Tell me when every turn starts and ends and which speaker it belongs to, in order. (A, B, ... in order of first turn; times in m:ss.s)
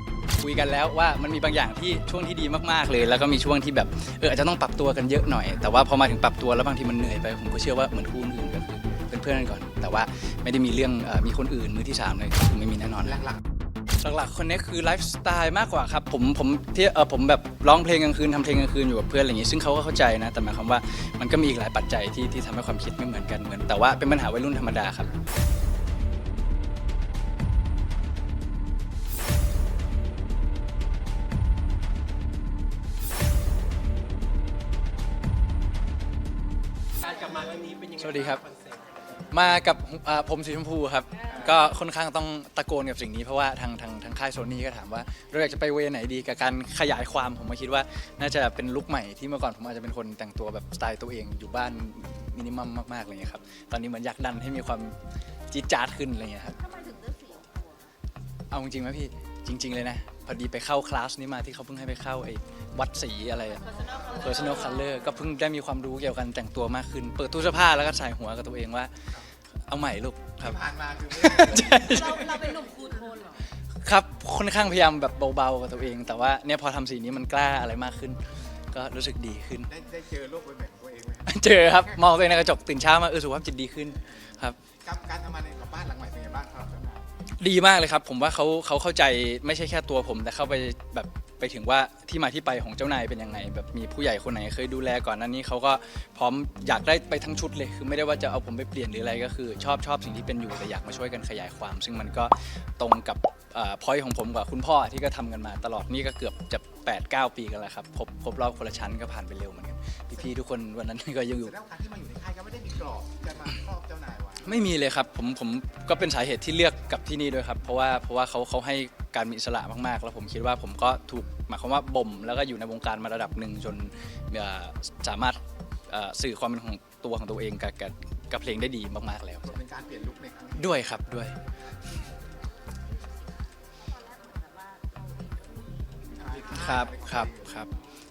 0:00.4-0:13.2 A
0:14.0-0:25.1 A
0:37.0-0:39.0 B
0:38.0-0:38.4 A
0:39.3-0:55.0 A
0:41.3-0:41.6 C
0:55.5-0:56.6 A
0:56.5-0:57.9 D
0:58.5-1:09.0 A
1:03.6-1:05.2 D
1:09.7-1:12.4 A
1:10.4-1:12.7 C
1:11.8-1:13.4 D
1:13.8-1:18.2 A
1:18.7-1:19.7 A
1:19.7-1:22.0 C
1:21.3-1:24.6 A
1:24.8-1:27.1 C
1:27.4-1:51.5 A
1:51.4-1:54.5 C
1:54.4-2:09.6 A
2:09.4-2:10.8 C
2:10.6-2:11.4 A
2:12.7-2:16.8 D
2:16.2-2:17.7 C
2:16.4-2:17.7 A